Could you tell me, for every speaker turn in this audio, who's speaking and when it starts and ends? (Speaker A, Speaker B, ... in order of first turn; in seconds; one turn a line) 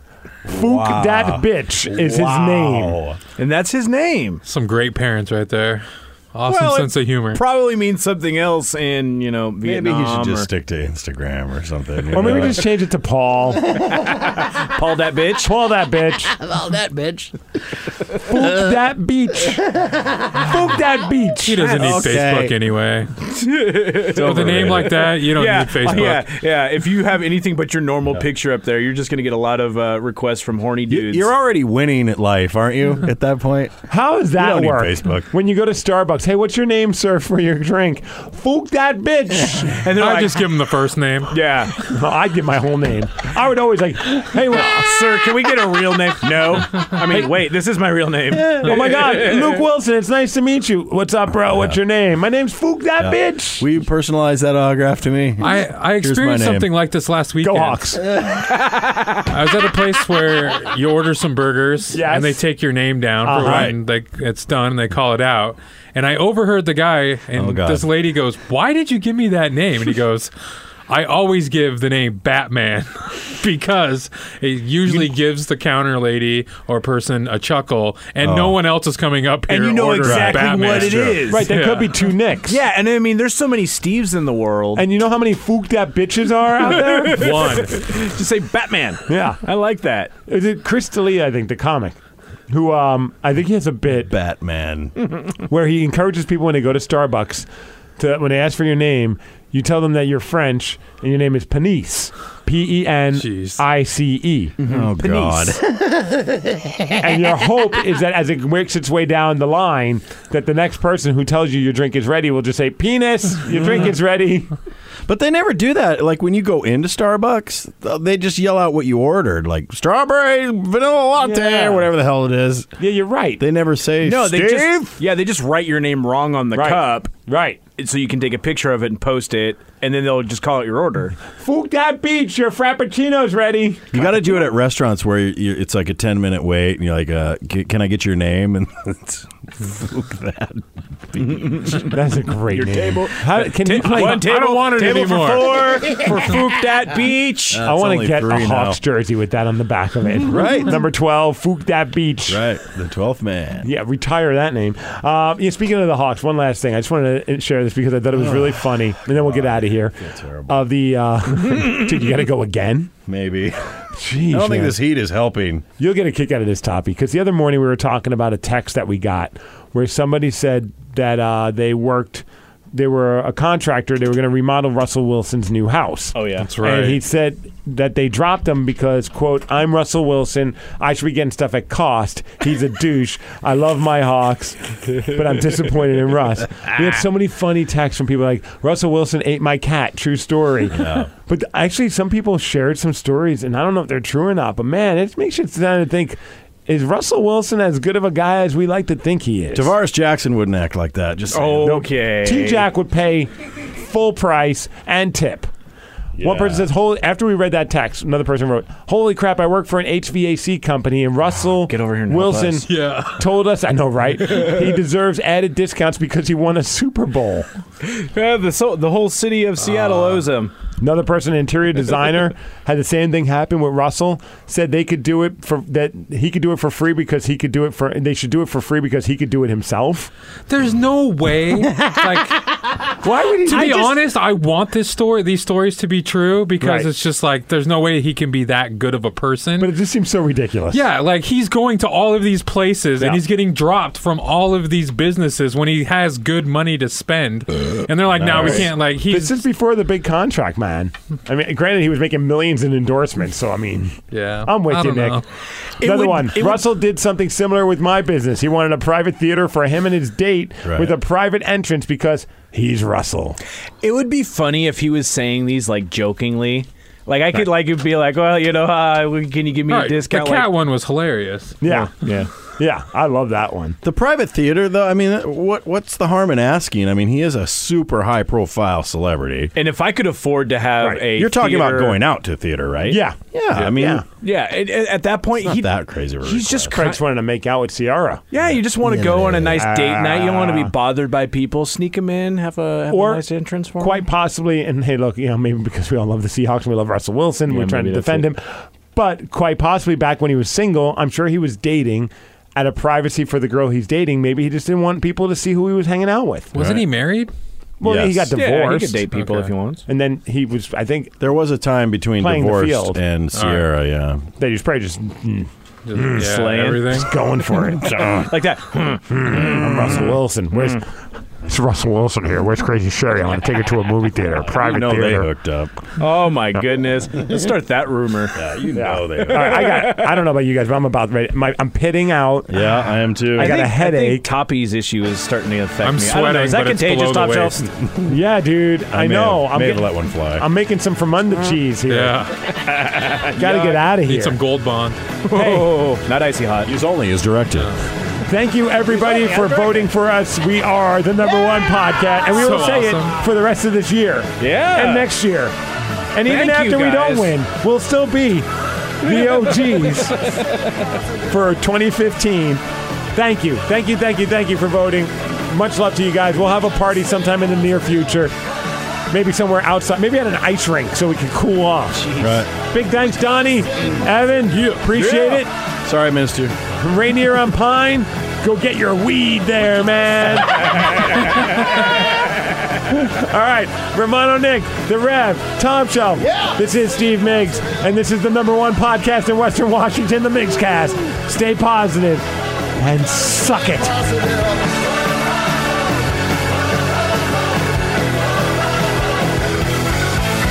Speaker A: 0.5-3.0
Speaker B: 0.5-3.2
Speaker C: 3.4-4.4
Speaker D: 4.4-7.4
Speaker C: 6.4-10.5
Speaker B: 9.6-12.7
Speaker A: 12.1-13.8
Speaker C: 14.1-15.5
Speaker A: 15.4-16.4
Speaker B: 16.6-17.3
Speaker A: 18.2-21.8
Speaker D: 21.4-23.1
Speaker C: 21.6-22.3
Speaker B: 21.8-22.6
Speaker C: 23.4-31.3
Speaker D: 24.1-26.3
Speaker B: 24.2-25.0
Speaker B: 30.9-33.8
Speaker A: 33.9-39.8
Speaker B: 34.3-35.3
Speaker C: 39.8-40.6
Speaker D: 40.0-41.4
Speaker C: 41.3-41.8
Speaker A: 41.8-45.1
Speaker C: 44.7-49.6
Speaker A: 46.8-47.3
Speaker B: 48.3-48.7
Speaker A: 48.5-53.6
Speaker B: 51.5-51.8
Speaker B: 53.0-56.7
Speaker D: 55.4-57.8
Speaker A: 57.4-58.0
Speaker C: 58.7-59.1
Speaker D: 59.3-70.3
Speaker A: 61.9-62.4
Speaker A: 63.2-63.7
Speaker B: 63.4-63.8
Speaker B: 67.3-67.9
Speaker D: 70.9-81.9
Speaker B: 78.2-78.6
Speaker C: 79.5-81.6
Speaker B: 80.0-81.0
Speaker A: 81.3-82.6
Speaker C: 82.5-84.8
Speaker A: 84.8-87.7
Speaker C: 86.6-90.1
Speaker D: 87.2-87.5
Speaker A: 89.1-89.4
Speaker A: 90.3-92.0
Speaker A: 92.5-94.1
Speaker B: 93.9-94.9
Speaker A: 95.5-97.5
Speaker A: 98.0-104.5
Speaker D: 103.1-103.6
Speaker B: 104.6-106.2
Speaker C: 104.7-105.5
Speaker A: 107.0-114.5
Speaker B: 115.1-122.7
Speaker A: 121.2-121.9
Speaker A: 122.8-123.4
Speaker B: 123.4-124.5
Speaker C: 124.0-127.1
Speaker A: 124.4-124.9
Speaker A: 126.5-127.6
Speaker C: 127.8-131.2
Speaker A: 131.3-133.9
Speaker B: 133.9-141.9
Speaker C: 141.3-141.9
Speaker A: 141.9-144.5
Speaker C: 142.5-147.6
Speaker D: 143.8-145.6
Speaker A: 145.8-146.5
Speaker B: 147.5-148.8
Speaker A: 147.6-152.4
Speaker B: 150.2-150.8
Speaker B: 152.3-153.7
Speaker A: 153.6-162.9
Speaker B: 158.1-160.6
Speaker B: 163.1-163.6
Speaker A: 163.9-164.8
Speaker B: 164.3-165.6
Speaker A: 165.8-199.7
Speaker C: 176.1-176.5
Speaker D: 176.4-177.0
Speaker B: 190.7-191.1
Speaker B: 199.5-201.8
Speaker C: 201.3-202.7
Speaker A: 201.6-205.5
Speaker B: 206.2-206.7
Speaker A: 206.2-217.5
Speaker C: 211.7-212.7
Speaker D: 212.7-213.2
Speaker C: 217.8-220.5
Speaker D: 219.7-220.0
Speaker A: 220.8-230.1
Speaker D: 230.5-232.4
Speaker A: 232.9-233.9
Speaker D: 233.5-239.7
Speaker C: 233.6-233.8
Speaker A: 236.6-236.9
Speaker A: 239.6-240.8
Speaker D: 240.7-249.3
Speaker B: 248.1-248.7
Speaker A: 248.2-255.2
Speaker D: 254.1-255.2
Speaker C: 255.8-256.6
Speaker A: 255.8-263.4
Speaker B: 260.6-261.0
Speaker C: 263.8-270.5
Speaker D: 269.7-271.6
Speaker A: 271.6-271.9
Speaker C: 271.6-272.3
Speaker A: 272.5-273.8
Speaker B: 273.8-279.5
Speaker C: 279.6-282.0
Speaker B: 281.1-284.1
Speaker A: 282.9-284.1
Speaker C: 284.2-287.0
Speaker B: 285.4-286.8
Speaker A: 286.7-288.2
Speaker C: 288.3-294.0
Speaker B: 288.3-289.6
Speaker A: 289.5-290.7
Speaker A: 292.9-306.6
Speaker C: 297.5-298.3
Speaker D: 306.5-307.3
Speaker A: 307.8-309.0
Speaker B: 307.8-308.4
Speaker C: 308.3-309.9
Speaker D: 309.1-309.5
Speaker A: 309.9-311.1
Speaker B: 311.2-314.3
Speaker A: 312.2-313.0
Speaker D: 313.3-313.6
Speaker A: 314.4-316.2
Speaker D: 315.9-317.1
Speaker C: 316.1-317.1
Speaker A: 316.9-318.2
Speaker B: 317.9-318.3
Speaker C: 318.1-319.9
Speaker A: 319.1-320.9
Speaker B: 319.7-320.0
Speaker A: 321.4-325.3
Speaker B: 324.4-325.7
Speaker C: 326.0-328.4
Speaker B: 328.3-329.9
Speaker A: 328.7-332.7
Speaker C: 329.1-330.2
Speaker B: 332.5-333.6
Speaker A: 333.4-334.3
Speaker C: 333.4-337.7
Speaker D: 335.8-337.7
Speaker A: 338.1-342.2
Speaker B: 338.9-340.5
Speaker D: 341.9-342.3
Speaker C: 342.6-343.9
Speaker A: 343.4-344.4
Speaker D: 344.0-345.1
Speaker C: 345.2-346.7
Speaker A: 345.3-345.8
Speaker B: 346.6-347.8
Speaker A: 348.3-355.5
Speaker C: 348.9-349.9
Speaker D: 352.4-353.2
Speaker C: 354.4-355.1
Speaker A: 356.1-358.5
Speaker C: 356.2-357.4
Speaker A: 359.0-360.3
Speaker C: 360.1-360.7
Speaker A: 361.3-362.6
Speaker A: 363.1-368.3
Speaker A: 369.1-375.5
Speaker B: 372.1-372.5
Speaker C: 374.9-375.4
Speaker B: 375.8-376.6
Speaker A: 376.8-380.7
Speaker A: 382.9-393.9